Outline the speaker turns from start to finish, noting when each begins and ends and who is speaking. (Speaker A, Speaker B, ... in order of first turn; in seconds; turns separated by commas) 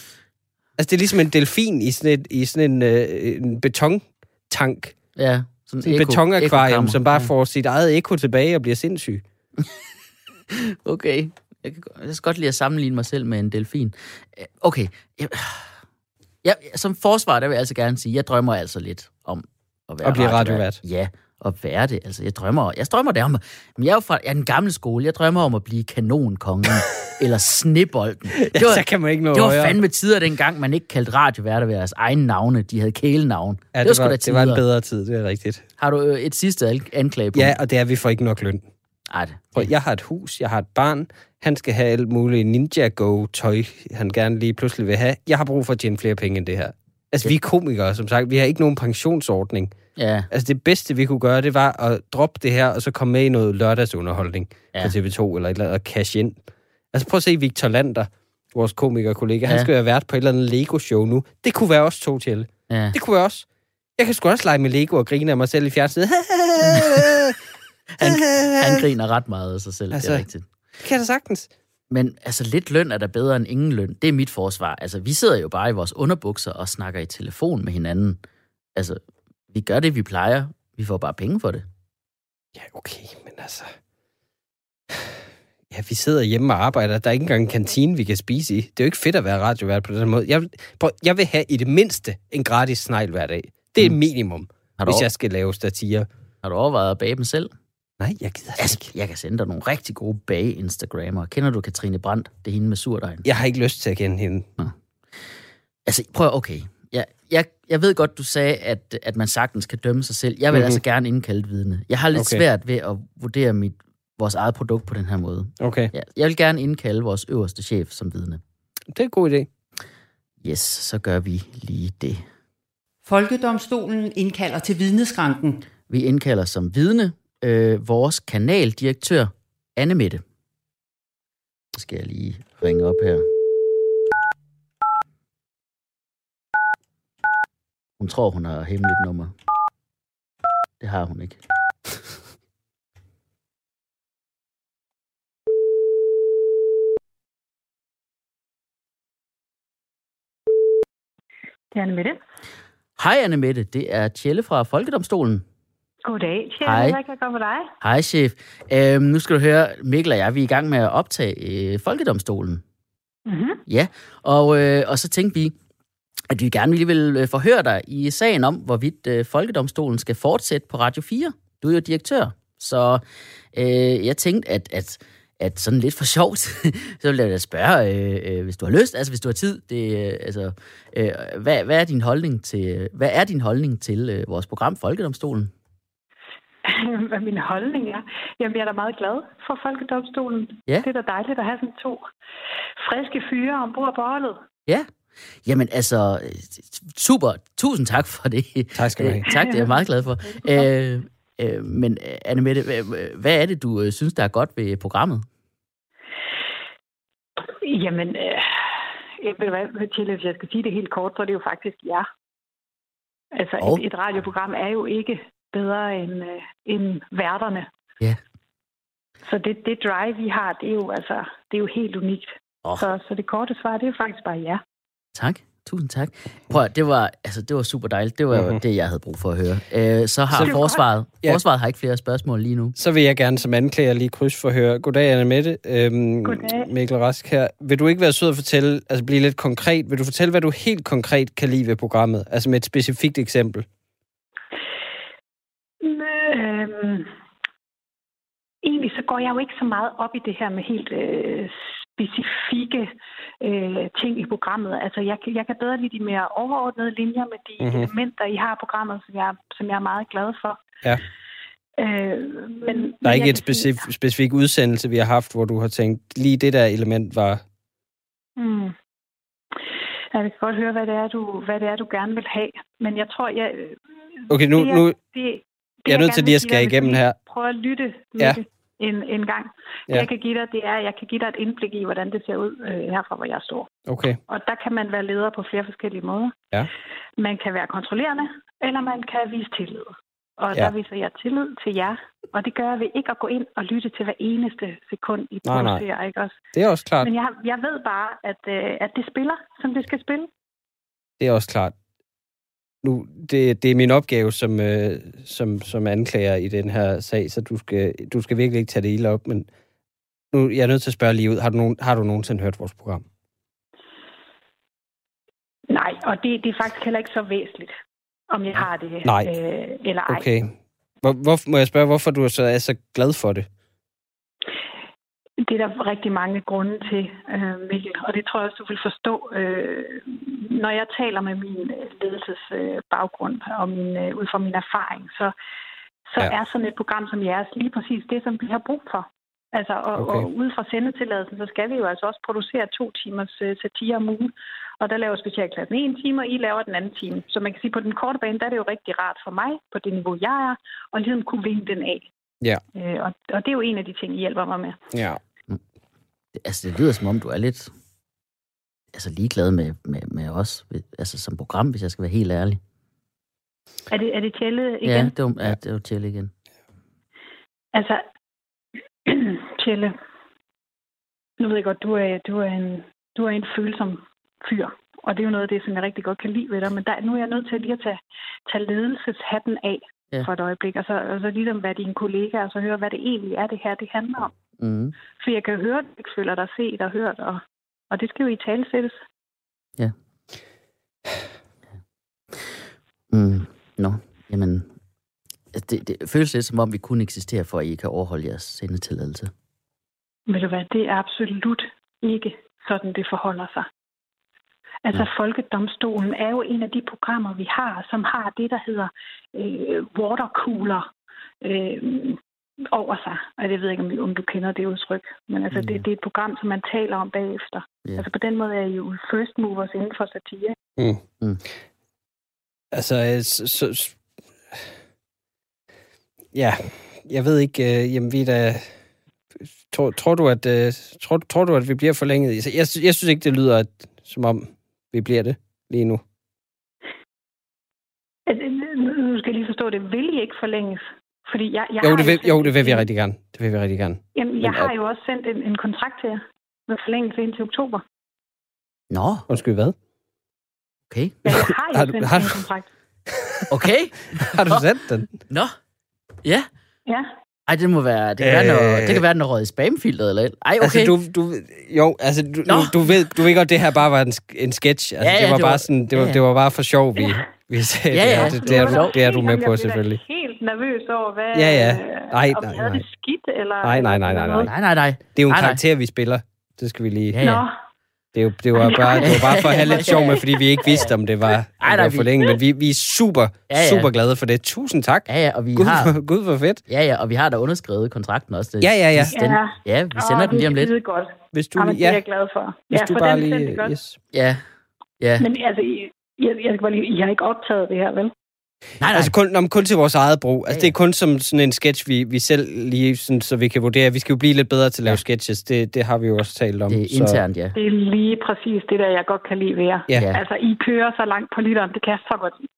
Speaker A: 0.8-4.9, Speaker B: 5.2-7.3, Speaker A: 5.8-9.2, Speaker B: 10.5-15.7, Speaker B: 16.4-34.6, Speaker A: 20.0-20.8, Speaker A: 28.4-29.8, Speaker A: 33.7-35.6, Speaker B: 35.8-37.5, Speaker A: 37.3-38.6, Speaker B: 39.1-39.7, Speaker A: 39.5-49.7, Speaker B: 50.0-50.3, Speaker A: 50.3-56.4, Speaker A: 56.9-63.5, Speaker B: 62.7-63.0, Speaker A: 64.0-67.4, Speaker B: 66.7-67.0, Speaker B: 68.0-70.4, Speaker A: 68.0-68.9, Speaker A: 69.9-70.2, Speaker A: 70.8-71.5, Speaker B: 71.9-78.2, Speaker B: 78.7-79.0, Speaker B: 79.5-81.6, Speaker A: 82.5-83.8, Speaker A: 84.9-85.2, Speaker A: 85.7-96.1, Speaker B: 94.8-95.0, Speaker B: 96.4-97.5, Speaker A: 98.0-98.9, Speaker B: 98.6-103.2, Speaker A: 103.2-104.5, Speaker B: 105.8-118.4, Speaker A: 110.5-110.8, Speaker A: 112.1-112.4, Speaker A: 115.6-115.9, Speaker A: 118.9-119.5, Speaker B: 120.4-122.2, Speaker C: 123.0-125.6, Speaker B: 125.9-130.2, Speaker B: 131.7-133.3, Speaker B: 138.0-139.3, Speaker B: 140.8-142.0, Speaker D: 151.7-152.2, Speaker B: 153.0-155.4, Speaker D: 156.0-157.7, Speaker B: 156.6-157.0, Speaker B: 157.8-162.6, Speaker D: 163.2-163.6, Speaker B: 163.7-165.5, Speaker B: 166.3-173.0, Speaker B: 173.5-185.5, Speaker D: 186.6-192.1, Speaker D: 192.8-194.4, Speaker B: 195.4-205.3, Speaker A: 198.7-199.3, Speaker D: 199.3-199.7, Speaker D: 207.5-212.1, Speaker D: 213.3-217.7, Speaker D: 219.2-224.6, Speaker B: 225.1-232.8, Speaker A: 228.3-228.6, Speaker A: 230.3-230.6, Speaker D: 230.4-230.8, Speaker A: 232.8-243.6, Speaker D: 236.2-236.7, Speaker D: 245.8-247.1, Speaker D: 248.6-260.6, Speaker A: 257.6-257.9, Speaker D: 261.8-263.8, Speaker A: 263.0-267.4, Speaker D: 268.4-268.7, Speaker D: 270.1-283.7, Speaker A: 274.3-274.9, Speaker A: 275.9-277.1, Speaker A: 283.9-284.2, Speaker D: 284.3-286.4, Speaker D: 287.2-296.4, Speaker A: 295.4-295.8, Speaker A: 296.5-297.1, Speaker D: 297.0-300.3, Speaker A: 301.2-301.7, Speaker A: 302.8-309.5, Speaker A: 310.3-313.0, Speaker D: 315.7-317.7, Speaker D: 318.3-320.2, Speaker A: 319.0-319.3, Speaker A: 320.1-323.5, Speaker D: 325.4-335.3, Speaker D: 336.1-352.1, Speaker A: 339.9-340.3, Speaker D: 352.7-354.8, Speaker A: 354.9-355.2, Speaker B: 356.3-357.7, Speaker B: 358.9-362.6, Speaker D: 363.9-365.1, Speaker B: 364.8-366.3, Speaker D: 367.7-368.0, Speaker D: 369.1-369.9, Speaker D: 371.4-384.3, Speaker B: 384.6-384.9, Speaker D: 385.2-389.0, Speaker B: 393.1-394.7, Speaker B: 395.5-399.3, Speaker D: 400.3-403.7, Speaker D: 404.8-410.9, Speaker D: 411.4-420.6, Speaker B: 415.5-415.8, Speaker A: 422.7-424.0, Speaker A: 426.3-428.7, Speaker A: 429.6-436.0, Speaker D: 438.3-442.9, Speaker A: 441.8-444.7, Speaker D: 444.1-447.8, Speaker B: 448.9-449.3, Speaker A: 449.3-449.7, Speaker B: 450.9-451.2, Speaker D: 451.2-452.7, Speaker A: 451.3-452.4, Speaker A: 453.1-453.5, Speaker B: 453.5-454.6, Speaker A: 454.1-455.1, Speaker B: 456.2-456.5, Speaker B: 457.5-460.9, Speaker A: 458.2-459.0, Speaker A: 460.6-470.0, Speaker B: 462.4-462.7, Speaker B: 465.0-466.2, Speaker B: 467.9-468.9, Speaker D: 468.1-474.5, Speaker A: 471.3-472.8, Speaker A: 473.6-474.5, Speaker B: 474.4-475.6, Speaker A: 475.1-477.2, Speaker B: 477.1-477.4, Speaker D: 477.2-477.5, Speaker A: 478.1-486.6, Speaker D: 478.6-480.2, Speaker B: 479.0-480.9, Speaker B: 481.6-482.1, Speaker B: 483.5-483.9, Speaker B: 485.1-485.9, Speaker B: 486.7-490.7, Speaker A: 488.6-489.1, Speaker D: 489.1-493.7, Speaker A: 491.3-492.0, Speaker A: 492.7-494.0, Speaker B: 494.1-494.4, Speaker D: 495.2-498.1, Speaker B: 498.8-499.1, Speaker A: 498.9-507.2, Speaker B: 506.7-507.6, Speaker D: 507.5-512.4, Speaker B: 509.9-510.2